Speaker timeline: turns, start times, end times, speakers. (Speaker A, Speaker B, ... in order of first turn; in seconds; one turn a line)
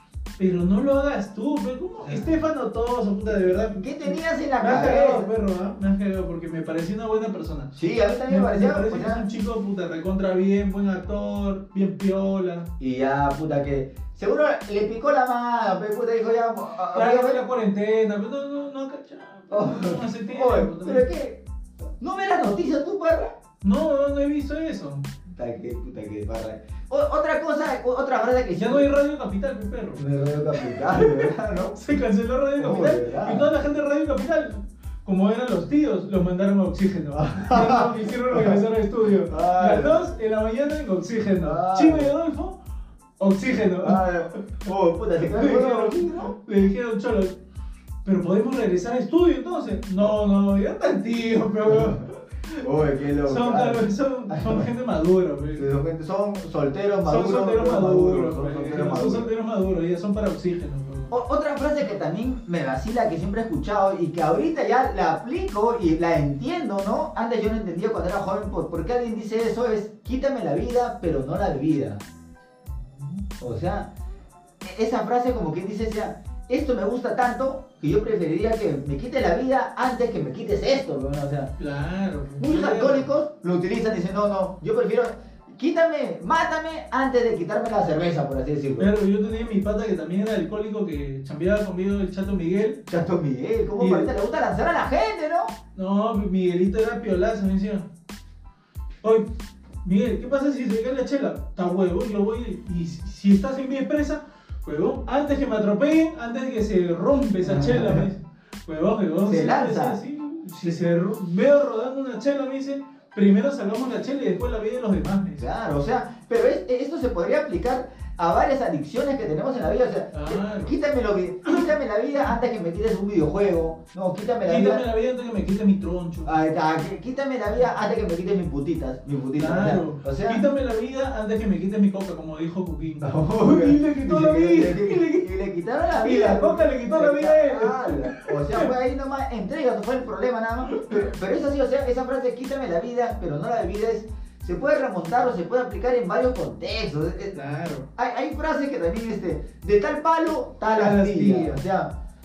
Speaker A: 0.4-7.8
Speaker B: 2.0-2.4
Speaker B: 3.3-5.3
Speaker B: 7.8-9.2
Speaker A: 8.3-12.7
Speaker B: 12.8-17.4
Speaker A: 16.9-21.1
Speaker B: 19.5-21.4
Speaker B: 22.0-23.3
Speaker A: 23.6-25.1
Speaker B: 25.3-28.9
Speaker A: 28.6-42.6
Speaker B: 30.0-31.8
Speaker B: 32.6-33.5
Speaker B: 37.2-38.6
Speaker B: 39.3-40.1
Speaker B: 41.4-42.1
Speaker A: 43.2-44.6
Speaker B: 43.8-46.3
Speaker A: 45.2-47.4
Speaker A: 48.0-52.7
Speaker B: 51.7-52.0
Speaker B: 52.6-54.7
Speaker A: 53.3-55.7
Speaker B: 55.6-59.3
Speaker A: 57.0-61.1
Speaker B: 61.1-72.0
Speaker A: 72.7-73.2
Speaker B: 73.4-73.9
Speaker B: 74.6-81.5
Speaker A: 81.6-83.1
Speaker B: 82.4-88.9
Speaker A: 88.8-92.8
Speaker B: 92.9-95.5
Speaker A: 93.8-94.1
Speaker A: 95.8-97.9
Speaker A: 99.0-99.3
Speaker A: 99.8-115.5
Speaker B: 107.4-108.1
Speaker B: 109.2-110.0
Speaker B: 115.4-124.8
Speaker A: 120.1-120.8
Speaker A: 124.4-126.3
Speaker B: 126.2-130.4
Speaker A: 129.4-135.3
Speaker B: 133.0-147.3
Speaker A: 136.0-138.7
Speaker A: 140.7-141.1
Speaker A: 147.3-147.9
Speaker B: 148.0-151.9
Speaker A: 150.8-151.6